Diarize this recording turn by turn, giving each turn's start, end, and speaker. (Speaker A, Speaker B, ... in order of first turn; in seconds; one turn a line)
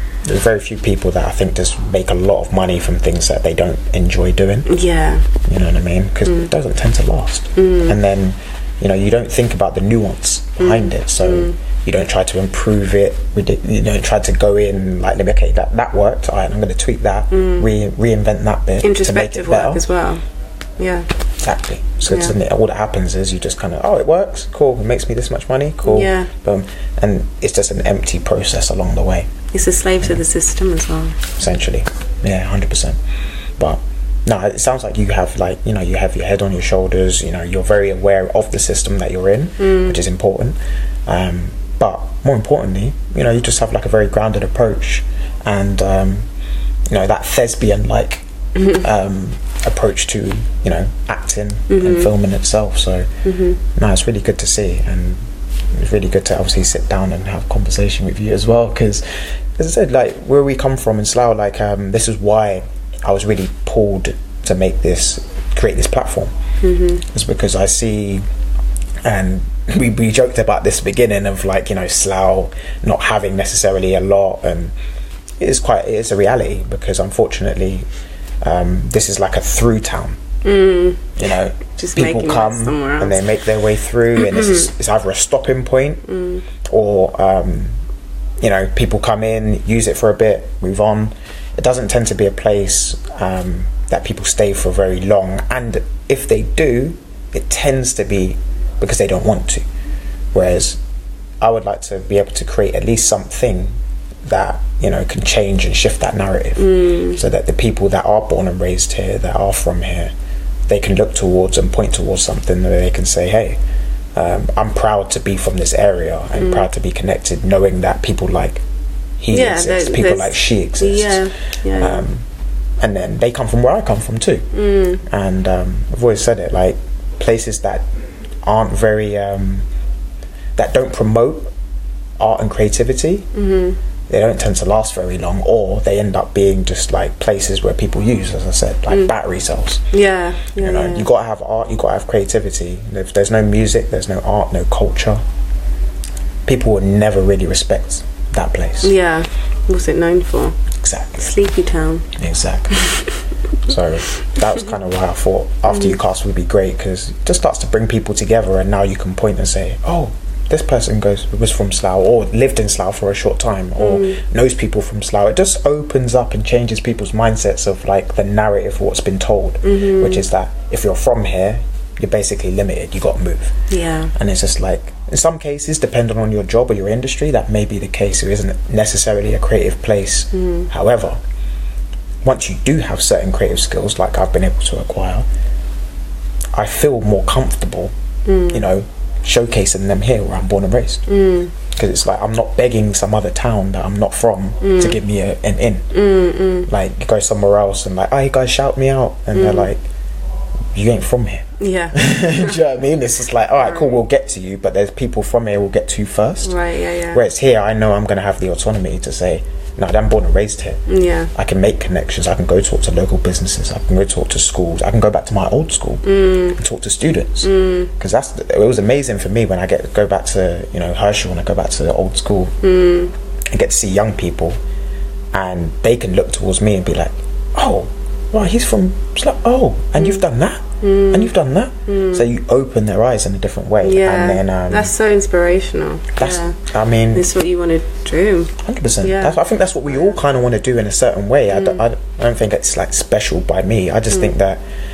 Speaker A: 0.2-4.7
Speaker B: 4.7-5.3
Speaker A: 5.5-19.8
Speaker B: 7.6-8.0
Speaker B: 10.6-11.6
Speaker B: 17.3-17.7
Speaker B: 18.8-20.2
Speaker B: 20.8-21.1
Speaker A: 21.4-29.3
Speaker B: 22.1-22.3
Speaker B: 25.8-26.3
Speaker B: 29.5-31.2
Speaker A: 31.4-33.0
Speaker A: 33.6-46.3
Speaker B: 39.6-40.0
Speaker A: 46.9-53.1
Speaker B: 48.6-48.8
Speaker B: 51.7-52.1
Speaker B: 53.2-53.6
Speaker A: 53.7-55.2
Speaker A: 55.7-59.0
Speaker A: 59.6-66.3
Speaker B: 66.6-67.0
Speaker A: 67.0-68.2
Speaker A: 69.0-74.7
Speaker A: 75.4-77.9
Speaker A: 78.4-80.2
Speaker B: 80.4-81.2
Speaker A: 81.2-86.0
Speaker B: 81.8-83.2
Speaker B: 84.2-84.7
Speaker B: 86.1-86.4
Speaker A: 86.7-87.8
Speaker A: 88.4-99.6
Speaker A: 100.3-100.8
Speaker A: 101.4-103.7
Speaker A: 104.2-110.1
Speaker B: 106.6-107.2
Speaker A: 110.7-113.6
Speaker A: 114.2-118.6
Speaker B: 116.4-116.7
Speaker A: 119.2-121.2
Speaker B: 119.3-122.0
Speaker A: 121.8-122.2
Speaker A: 122.8-124.5
Speaker B: 124.5-125.0
Speaker A: 125.0-127.9
Speaker A: 128.4-129.7
Speaker A: 130.6-131.5
Speaker A: 132.2-133.3
Speaker B: 133.3-133.8
Speaker A: 134.1-139.8
Speaker B: 139.9-141.1
Speaker A: 140.6-145.2
Speaker A: 146.5-148.9
Speaker B: 148.8-150.6
Speaker A: 150.8-151.3
Speaker B: 151.2-152.1
Speaker A: 152.2-152.8
Speaker A: 153.6-173.6
Speaker B: 155.7-155.9
Speaker B: 163.8-164.2
Speaker B: 169.6-170.2
Speaker B: 173.7-174.1
Speaker A: 174.1-181.2
Speaker B: 180.3-180.7
Speaker A: 182.2-185.3
Speaker A: 186.6-187.9
Speaker B: 188.3-188.7
Speaker A: 188.5-191.1
Speaker B: 191.1-191.5
Speaker A: 191.7-195.9
Speaker B: 194.6-195.0
Speaker B: 195.9-196.7
Speaker A: 196.7-199.8
Speaker B: 199.3-199.7
Speaker A: 200.7-206.6
Speaker B: 201.6-202.0
Speaker B: 206.4-207.2
Speaker A: 207.1-210.8
Speaker B: 210.9-211.3
Speaker A: 211.3-222.6
Speaker B: 216.1-216.6
Speaker B: 217.4-217.9
Speaker B: 222.6-223.1
Speaker A: 223.5-224.6
Speaker A: 225.3-234.9
Speaker B: 230.8-231.3
Speaker B: 231.9-232.3
Speaker B: 233.8-236.6
Speaker A: 236.2-237.3
Speaker B: 237.1-239.4
Speaker A: 238.6-244.6
Speaker B: 241.5-241.8